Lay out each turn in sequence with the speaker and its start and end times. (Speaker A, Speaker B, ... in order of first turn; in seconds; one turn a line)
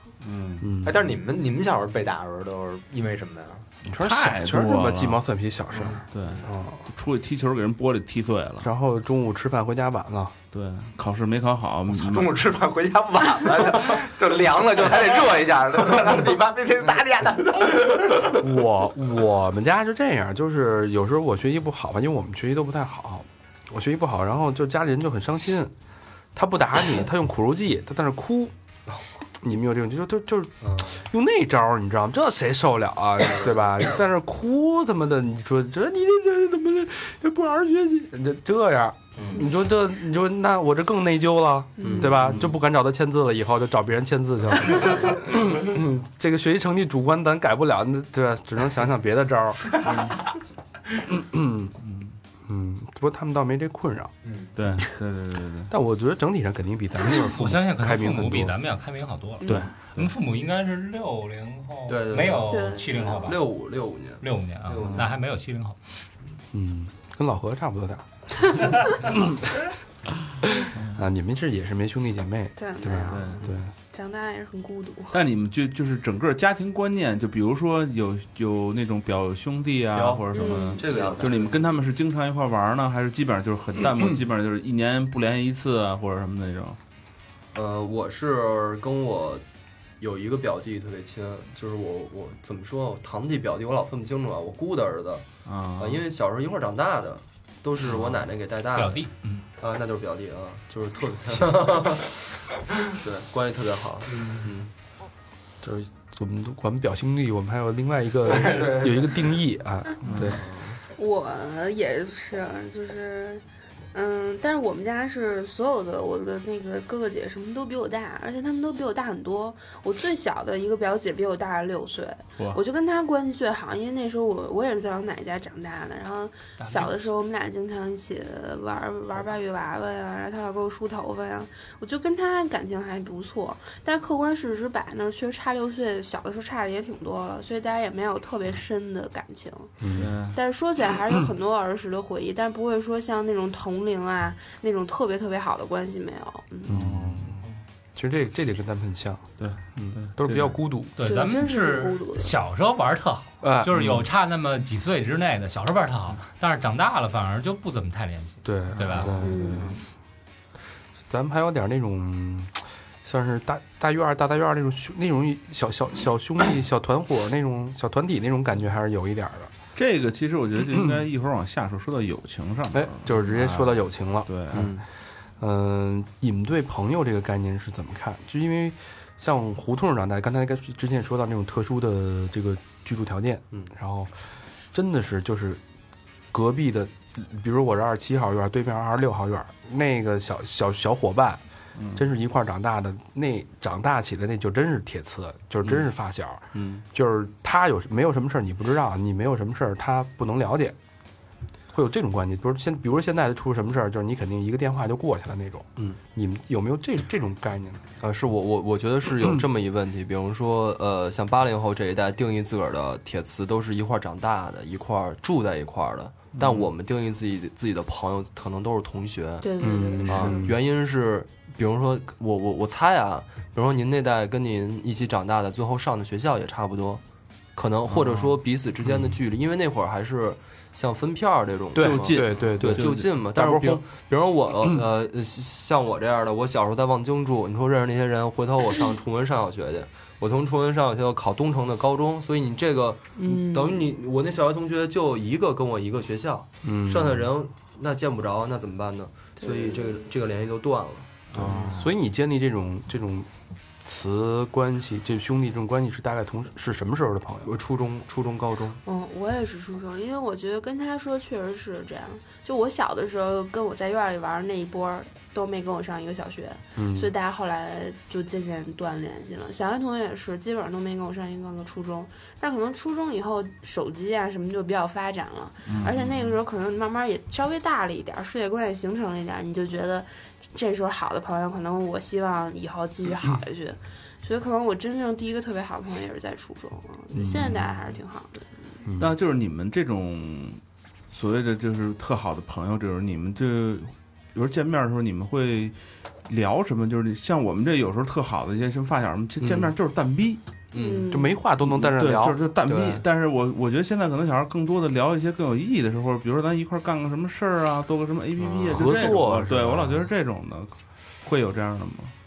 Speaker A: 0.2-0.7
Speaker B: 0.6-1.0
Speaker C: 0.8-3.7
Speaker B: 3.9-6.8
Speaker A: 3.9-5.2
Speaker A: 6.1-8.7
Speaker B: 8.6-10.3
Speaker A: 10.5-12.4
Speaker C: 11.9-18.3
Speaker B: 18.3-25.7
Speaker B: 26.4-28.5
Speaker B: 29.4-49.8
Speaker D: 30.6-30.9
Speaker E: 41.8-42.2
Speaker A: 42.2-42.5
Speaker B: 51.1-51.7
Speaker A: 51.8-52.1
Speaker B: 52.5-54.1
Speaker C: 54.2-54.5
Speaker A: 54.6-55.7
Speaker B: 55.7-58.5
Speaker F: 57.3-63.5
Speaker A: 59.5-60.1
Speaker D: 61.9-62.6
Speaker E: 62.5-63.3
Speaker D: 63.2-65.1
Speaker F: 64.2-65.8
Speaker A: 64.8-65.1
Speaker B: 66.5-68.1
Speaker B: 69.1-69.4
Speaker A: 70.8-71.0
Speaker B: 70.9-73.7
Speaker E: 72.6-75.2
Speaker A: 73.1-73.5
Speaker A: 75.1-86.8
Speaker D: 79.9-81.6
Speaker E: 80.3-80.8
Speaker D: 87.5-89.4
Speaker D: 90.0-95.3
Speaker A: 95.5-96.0
Speaker D: 95.8-99.0
Speaker A: 97.9-98.2
Speaker F: 98.7-99.5
Speaker D: 99.6-102.2
Speaker D: 102.9-104.7
Speaker B: 105.6-110.4
Speaker C: 108.3-109.2
Speaker A: 110.0-110.4
Speaker D: 110.2-110.8
Speaker E: 110.9-139.8
Speaker F: 126.6-127.0
Speaker B: 139.8-140.1
Speaker A: 139.9-140.4
Speaker E: 140.3-146.8
Speaker B: 146.7-147.4
Speaker A: 146.7-147.4
Speaker B: 148.0-150.9
Speaker A: 149.4-150.6
Speaker F: 151.0-159.2
Speaker E: 151.0-152.3
Speaker B: 153.4-153.8
Speaker A: 153.8-154.0
Speaker B: 158.4-159.7
Speaker A: 158.7-159.8
Speaker E: 159.2-159.8
Speaker B: 161.1-169.5
Speaker A: 169.8-174.7
Speaker B: 172.7-174.8
Speaker D: 174.5-174.8
Speaker B: 175.4-184.2
Speaker B: 184.7-185.6
Speaker B: 186.3-191.4
Speaker B: 191.9-200.8
Speaker D: 196.5-196.8
Speaker B: 201.7-207.8
Speaker D: 208.0-219.5
Speaker A: 216.4-216.7
Speaker E: 219.4-220.5
Speaker B: 219.6-220.6
Speaker D: 220.1-227.0
Speaker D: 227.6-251.7
Speaker A: 228.0-228.3
Speaker B: 231.8-233.8
Speaker A: 231.8-233.1
Speaker E: 243.2-243.8
Speaker B: 246.6-247.2
Speaker E: 249.4-250.0
Speaker A: 251.3-251.9
Speaker B: 251.4-253.3
Speaker B: 253.8-257.5
Speaker D: 257.4-258.8
Speaker E: 258.9-288.8
Speaker B: 266.8-267.1
Speaker A: 275.7-276.4
Speaker B: 287.2-287.6
Speaker B: 288.9-289.1
Speaker A: 289.0-290.6
Speaker A: 291.1-300.4
Speaker D: 300.7-301.1
Speaker E: 300.8-301.4
Speaker B: 301.1-302.4
Speaker A: 301.7-312.1
Speaker D: 302.6-303.0
Speaker B: 308.6-310.1